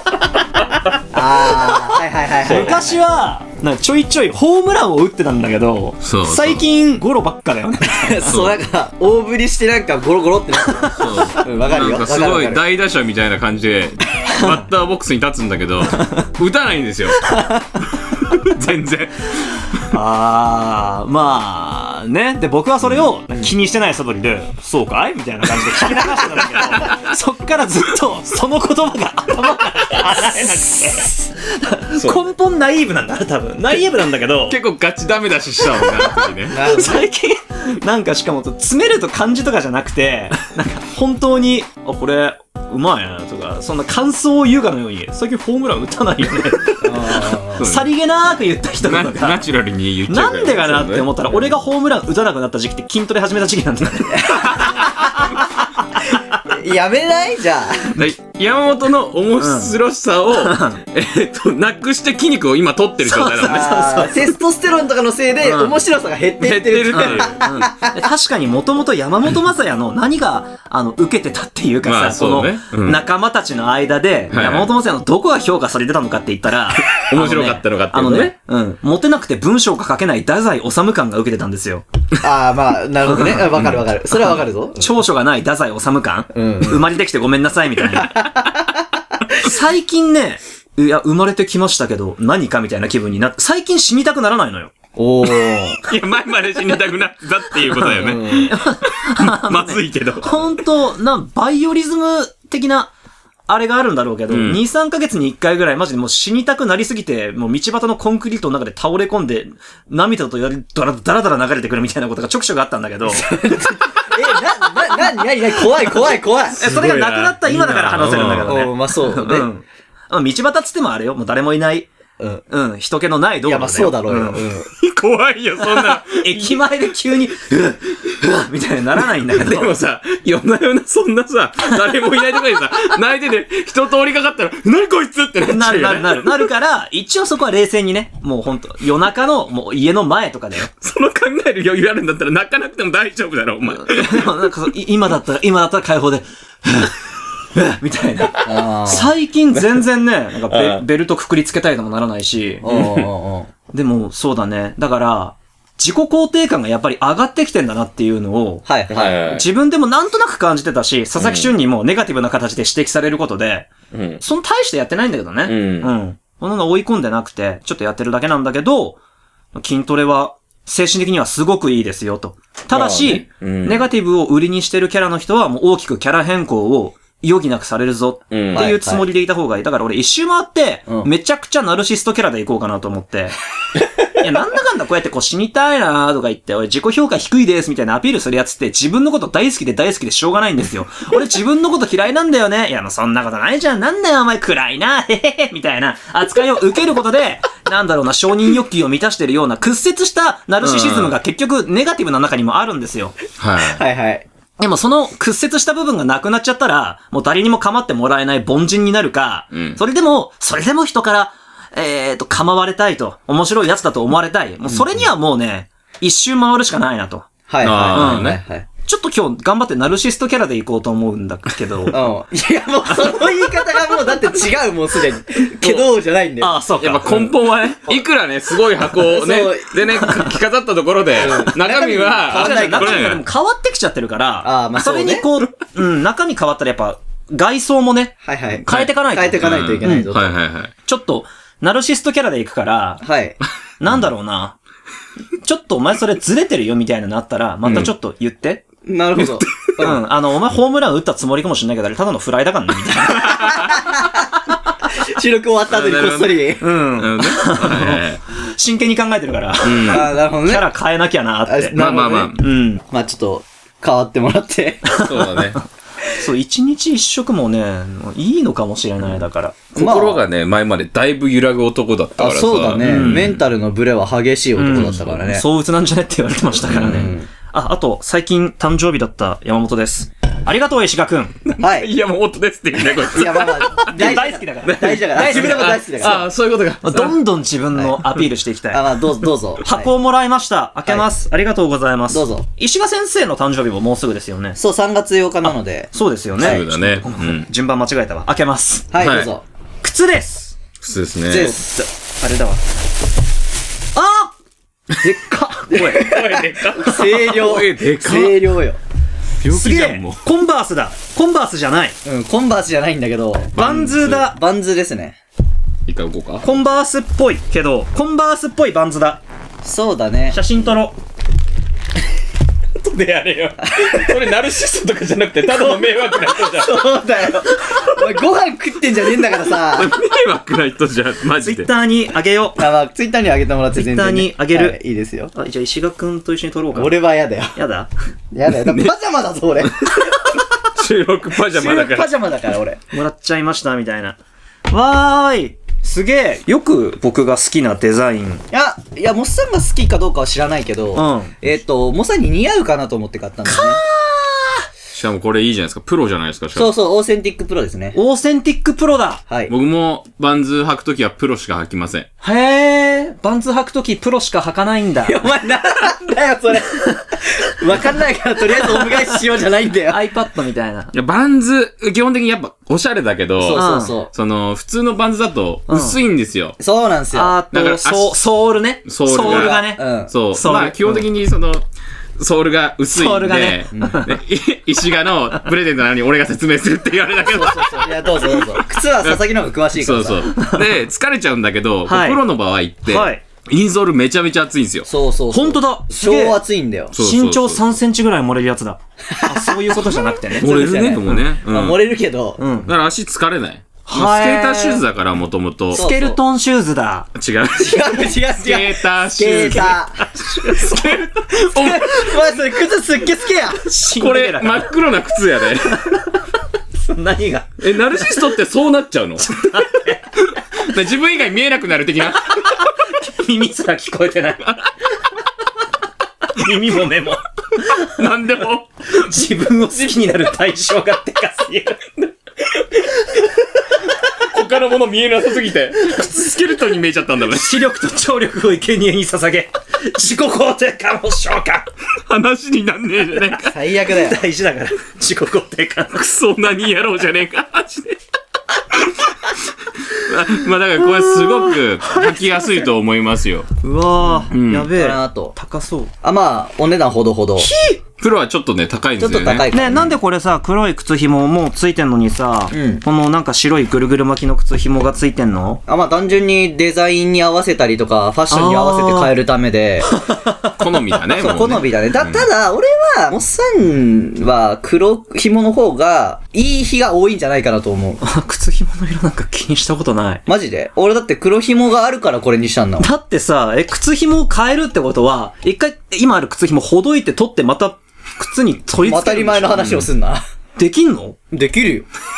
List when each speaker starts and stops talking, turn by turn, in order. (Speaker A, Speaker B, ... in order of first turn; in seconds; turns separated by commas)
Speaker A: 1.1-3.0, Speaker B: 2.4-8.4, Speaker C: 6.0-6.6, Speaker A: 7.8-12.6, Speaker C: 8.3-8.6, Speaker B: 10.8-11.3, Speaker C: 10.9-17.4, Speaker A: 14.2-14.5, Speaker B: 14.3-14.6, Speaker B: 15.9-16.2, Speaker B: 17.2-17.8, Speaker C: 18.1-19.9, Speaker B: 19.9-34.6, Speaker C: 26.6-27.1, Speaker C: 31.9-32.3, Speaker C: 34.5-36.8, Speaker B: 35.8-49.4, Speaker A: 36.5-37.1, Speaker A: 46.8-47.6, Speaker C: 47.6-47.9, Speaker C: 48.8-51.4, Speaker B: 50.1-54.9, Speaker A: 54.3-55.3, Speaker C: 54.5-55.4, Speaker A: 56.2-58.0, Speaker C: 57.9-63.8, Speaker B: 59.4-59.7, Speaker B: 60.3-60.8, Speaker B: 63.0-64.3, Speaker A: 63.4-68.1, Speaker B: 65.4-65.8, Speaker C: 66.4-67.4, Speaker B: 66.9-81.8, Speaker C: 71.8-73.0, Speaker C: 74.3-74.7, Speaker C: 76.8-78.3, Speaker A: 82.2-84.9, Speaker B: 83.0-83.8, Speaker B: 84.8-88.3, Speaker A: 86.3-86.9, Speaker A: 88.1-88.8, Speaker B: 89.3-94.7, Speaker A: 95.0-95.8, Speaker C: 95.8-100.5, Speaker B: 97.6-102.9, Speaker B: 103.5-113.3, Speaker C: 104.3-104.6, Speaker A: 113.1-116.6, Speaker C: 116.5-118.7, Speaker B: 116.5-121.9, Speaker A: 118.5-119.5, Speaker A: 122.2-122.4, Speaker B: 122.5-124.5, Speaker A: 123.5-124.7, Speaker C: 124.8-126.6, Speaker B: 125.8-129.7, Speaker C: 129.3-136.5, Speaker B: 135.4-140.7, Speaker C: 140.8-144.5, Speaker B: 143.7-147.0, Speaker B: 147.5-153.0, Speaker A: 148.4-149.1, Speaker C: 150.5-150.8, Speaker A: 152.6-153.5, Speaker C: 152.7-153.0, Speaker B: 153.7-169.0, Speaker A: 158.7-159.2, Speaker C: 158.9-159.5, Speaker C: 161.2-161.5, Speaker C: 163.9-164.2, Speaker C: 165.5-165.9, Speaker B: 169.5-183.3, Speaker C: 172.7-173.9, Speaker C: 178.3-178.8, Speaker A: 178.5-179.1, Speaker B: 184.1-203.2, Speaker C: 200.6-201.2, Speaker C: 203.4-203.8, Speaker A: 203.6-204.3, Speaker B: 204.6-217.3, Speaker C: 209.5-209.8, Speaker A: 214.7-215.1, Speaker A: 217.5-218.7, Speaker C: 217.6-218.4, Speaker B: 217.9-218.3, Speaker B: 218.8-222.1, Speaker A: 221.9-226.6, Speaker C: 225.6-225.9, Speaker B: 226.4-227.3, Speaker C: 226.8-233.2, Speaker A: 228.9-230.1, Speaker A: 231.2-233.2, Speaker B: 232.2-240.1, Speaker A: 234.4-235.2, Speaker A: 238.2-240.3, Speaker C: 238.7-240.7, Speaker B: 240.9-243.1, Speaker A: 243.0-243.4, Speaker B: 243.8-244.6, Speaker B: 245.4-248.6, Speaker A: 248.8-250.0, Speaker C: 249.2-249.8, Speaker B: 249.8-253.6, Speaker C: 253.1-253.8, Speaker A: 253.3-254.3, Speaker A: 254.9-256.6, Speaker C: 255.7-258.2, Speaker B: 256.6-261.8, Speaker C: 259.6-260.1, Speaker A: 259.9-260.7, Speaker A: 261.4-265.0, Speaker C: 261.8-262.4, Speaker B: 262.4-262.8, Speaker B: 264.9-265.6, Speaker C: 265.0-265.6, Speaker B: 266.1-269.6, Speaker C: 269.8-273.4, Speaker A: 269.8-270.2, Speaker A: 272.2-275.4, Speaker B: 272.8-273.4, Speaker B: 274.6-281.4, Speaker A: 276.7-277.3, Speaker C: 281.4-284.2, Speaker A: 281.6-281.9, Speaker A: 283.0-286.3, Speaker B: 283.9-286.2, Speaker C: 284.7-287.2, Speaker B: 286.8-294.6, Speaker A: 288.7-289.9, Speaker A: 292.1-292.5, Speaker A: 294.6-296.7, Speaker B: 295.4-298.9, Speaker C: 296.4-297.5, Speaker A: 298.9-299.4, Speaker C: 299.0-299.3, Speaker B: 299.8-300.6, Speaker C: 300.8-301.6, Speaker A: 301.3-301.9, Speaker B: 301.3-301.6, Speaker B: 302.1-302.6, Speaker B: 303.9-304.3, Speaker B: 305.0-306.1, Speaker A: 305.0-308.8, Speaker C: 305.8-308.6, Speaker C: 309.4-310.2, Speaker B: 309.5-312.0, Speaker A: 312.1-315.2, Speaker B: 313.6-314.4, Speaker C: 313.6-314.3, Speaker C: 315.9-316.5, Speaker B: 316.4-319.2, Speaker A: 319.6-320.4, Speaker B: 320.3-320.9, Speaker C: 322.8-326.9, Speaker A: 323.6-324.1, Speaker A: 325.5-329.9, Speaker C: 327.7-328.0, Speaker C: 329.5-331.7, Speaker B: 331.4-332.6, Speaker A: 332.6-335.3, Speaker B: 333.8-334.8, Speaker B: 335.3-337.0, Speaker A: 336.8-337.6, Speaker B: 337.6-337.9, Speaker A: 338.3-340.4, Speaker C: 338.5-338.9, Speaker C: 339.9-342.1, Speaker A: 341.5-342.8, Speaker B: 342.9-344.2, Speaker B: 344.7-348.4, Speaker A: 348.5-353.8, Speaker B: 350.9-351.3, Speaker B: 353.5-354.6, Speaker C: 354.9-356.7, Speaker A: 356.6-358.0, Speaker B: 357.9-359.2, Speaker C: 359.5-362.1, Speaker B: 362.2-365.2, Speaker A: 365.1-370.0, Speaker B: 368.7-369.1, Speaker B: 369.9-370.9, Speaker C: 370.9-376.6, Speaker A: 373.4-374.1, Speaker B: 373.5-373.9, Speaker B: 375.7-376.0, Speaker A: 376.6-377.4, Speaker B: 377.1-381.0, Speaker C: 377.5-378.2, Speaker C: 378.9-381.7, Speaker A: 379.2-380.1, Speaker C: 382.2-394.9, Speaker B: 382.9-384.2, Speaker A: 383.7-384.0, Speaker A: 387.2-390.3, Speaker B: 390.3-390.7, Speaker B: 391.9-392.2, Speaker B: 392.9-393.2, Speaker A: 394.9-396.9, Speaker B: 395.3-396.4, Speaker C: 396.9-397.7, Speaker B: 396.9-400.5, Speaker A: 399.1-399.6, Speaker A: 400.3-402.4, Speaker C: 400.4-401.8, Speaker B: 402.4-402.7, Speaker C: 402.7-405.9, Speaker B: 403.9-404.8, Speaker A: 405.7-406.2, Speaker B: 405.7-407.1, Speaker C: 407.2-412.4, Speaker A: 407.6-410.1, Speaker B: 410.2-410.9, Speaker A: 411.3-413.6, Speaker B: 413.6-414.7, Speaker C: 414.0-416.0, Speaker B: 415.7-416.1, Speaker B: 416.9-418.3, Speaker C: 417.6-419.6, Speaker B: 419.2-420.1, Speaker C: 420.4-422.5, Speaker B: 422.4-424.4, Speaker B: 426.2-428.0, Speaker C: 427.7-428.9, Speaker B: 428.9-431.8, Speaker C: 434.1-437.6, Speaker B: 437.3-441.7, Speaker C: 442.1-443.6, Speaker A: 443.4-444.2, Speaker B: 443.9-446.0, Speaker C: 445.9-448.0, Speaker C: 448.7-453.5, Speaker B: 450.8-452.7, Speaker B: 453.6-455.9, Speaker C: 454.3-454.7, Speaker A: 454.7-455.4, Speaker A: 456.0-457.5, Speaker B: 457.4-457.8, Speaker C: 458.0-459.5, Speaker A: 459.0-459.9, Speaker B: 459.5-465.6, Speaker A: 462.5-462.8, Speaker A: 465.7-469.9, Speaker B: 468.3-469.1, Speaker B: 469.9-470.8, Speaker C: 470.6-472.3, Speaker A: 471.1-478.0, Speaker B: 478.0-480.2, Speaker A: 480.3-482.9, Speaker B: 482.8-489.8, Speaker A: 488.8-490.2, Speaker C: 489.6-489.8, Speaker B: 490.6-491.2, Speaker A: 491.3-491.9